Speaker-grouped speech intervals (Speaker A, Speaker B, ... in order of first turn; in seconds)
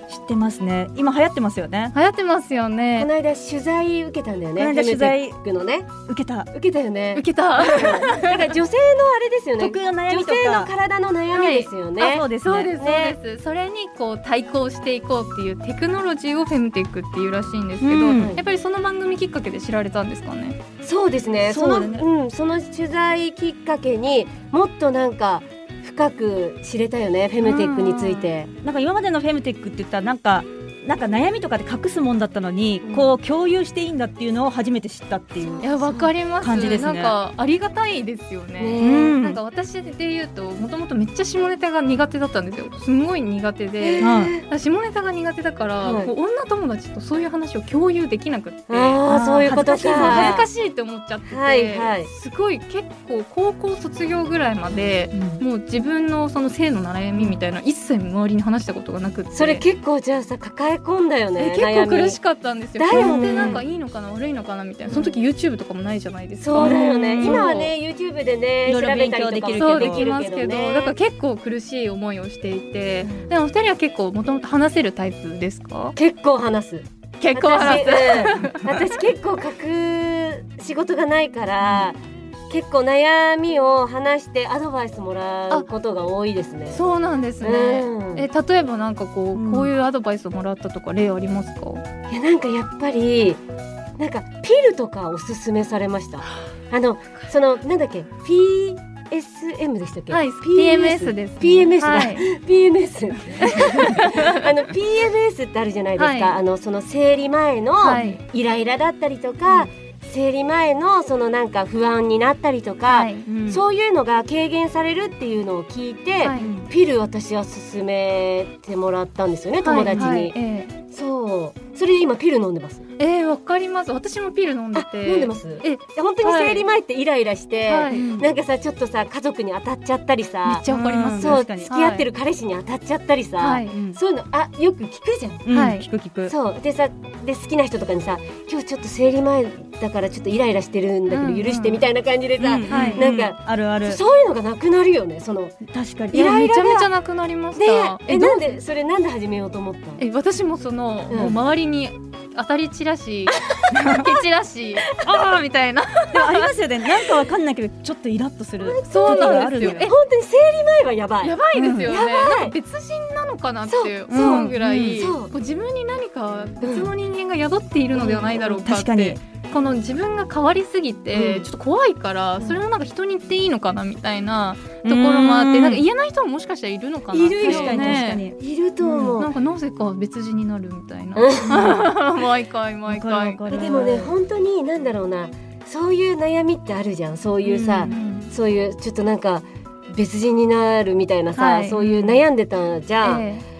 Speaker A: 0.1-1.9, 4.6-5.4, 6.1-6.5, 9.6-10.7, 12.0-12.7, 17.8-18.4, 21.5-22.0, 28.6-35.7, 36.4-37.2, 38.8-39.4, 44.0-44.4, 49.1-50.5, 55.1-55.4, 62.9-63.6, 66.6-67.5, 68.7-70.1, 81.6-81.9, 89.3-89.7, 113.3-113.6, 116.4-116.7, 127.9-128.3, 130.7-131.7, 133.7-134.0, 135.5-136.3, 142.4-144.0, 145.7-146.3, 153.7-154.1, 156.1-159.9, 161.5-162.0, 164.1-165.0, 168.7-169.2, 174.8-175.8, 177.1-179.2, 182.9-184.1, 187.4-188.0, 191.8-192.2
Speaker B: 1.9-3.1, 7.2-8.5, 11.3-11.7, 12.4-20.6, 27.4-28.3, 35.6-59.6, 61.4-67.7, 69.6-76.0, 77.2-78.7, 86.7-91.8, 100.1-102.3, 103.4-104.4, 106.0-106.3, 107.8-108.2, 112.9-113.3, 116.2-116.5, 119.6-120.8, 123.0-126.7, 127.7-128.1, 130.5-132.1, 133.4-133.8, 135.5-135.9, 141.1-141.8, 142.7-143.1, 146.1-148.6, 150.0-156.5, 158.9-159.9, 161.2-178.2, 179.1-183.5, 187.8-188.3, 191.4-192.1, 193.0-193.4
Speaker C: 3.0-6.0, 6.5-12.3, 12.8-13.2, 18.2-18.4, 20.8-28.5, 32.9-33.1, 35.4-36.1, 38.6-39.2, 43.8-44.4, 45.8-46.1, 48.7-50.5, 51.3-52.1, 59.3-62.2, 62.8-63.6, 64.9-65.2, 66.4-70.9, 73.0-73.3, 76.0-82.0, 82.5-86.8, 87.4-88.3, 92.1-93.4, 94.0-120.3, 120.9-122.8, 124.8-135.5, 136.3-146.9, 147.6-150.0, 151.1-151.4, 153.4-153.7, 158.6-162.6, 163.7-165.3, 166.6-166.9, 167.9-168.6, 171.1-171.5, 177.3-179.3, 181.2-181.9, 183.5-193.3